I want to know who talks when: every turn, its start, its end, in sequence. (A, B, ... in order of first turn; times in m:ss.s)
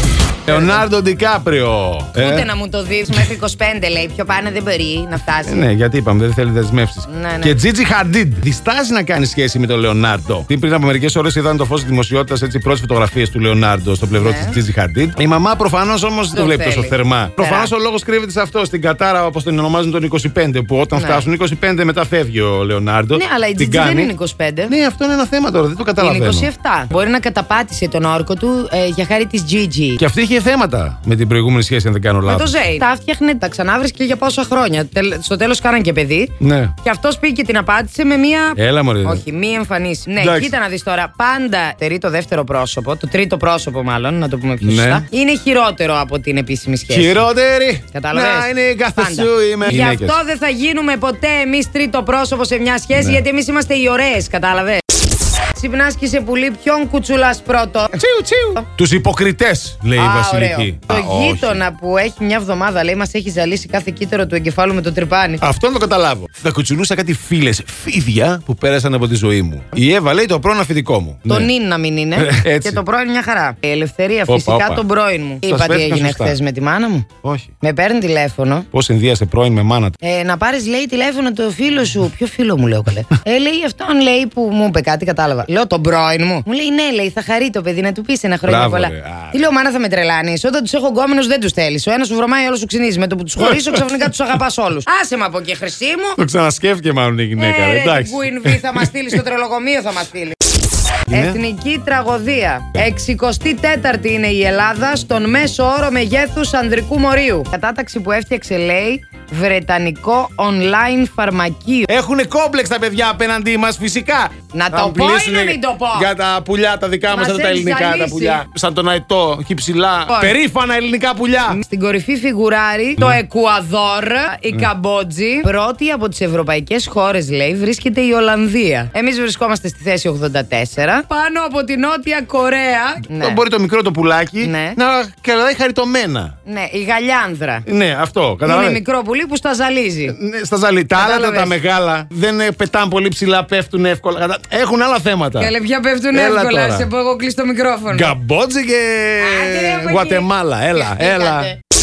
0:00.5-0:02.5 A
0:00.5-0:00.8 B
0:02.2-0:05.7 B
0:05.4-0:24.1 A
0:07.1-0:07.6 B
0:14.2-0:14.6 B
0:16.3-0:17.7 B
0:20.9-0:21.3 B
0:23.1-0:24.7 B
0:24.7-0:26.5 A
0:26.0-0:30.0 B
0:30.0-0:32.7 A
0:32.2-0:47.3 B
0:36.4-0:36.7 A
0:38.6-0:39.2 A
0:40.2-0:40.5 A
0:44.6-0:45.0 A
0:46.9-0:50.2 A
0:47.9-0:54.8 B
0:52.9-0:53.2 A
0:55.5-0:58.0 B
0:57.9-1:01.6 A
1:00.0-1:05.4 B
1:05.4-1:11.5 A
1:11.3-1:17.1 B
1:12.2-1:12.8 A
1:14.3-1:14.8 A
1:15.4-1:16.4 A
1:17.2-1:17.5 A
1:17.6-1:18.7 B
1:18.7-1:20.0 A
1:20.0-1:36.2 B
1:28.4-1:29.4 A
1:33.4-1:34.0 A
1:36.2-1:38.9 A
1:37.4-1:40.4 B
1:41.1-1:41.4 A
1:41.1-1:51.9 B
1:51.9-2:01.6 A
1:54.5-1:56.1 B
1:57.1-1:58.4 B
2:00.1-2:00.4 B
2:01.5-2:13.4 B
2:13.1-2:16.3 A
2:14.4-2:14.8 B
2:16.4-2:17.6 B
2:17.6-2:18.8 A
2:18.4-2:20.2 B
2:20.1-2:25.5 A
2:21.0-2:21.5 B
2:25.4-2:28.1 B
2:26.1-2:26.9 A
2:27.9-2:31.5 A
2:29.2-2:31.6 B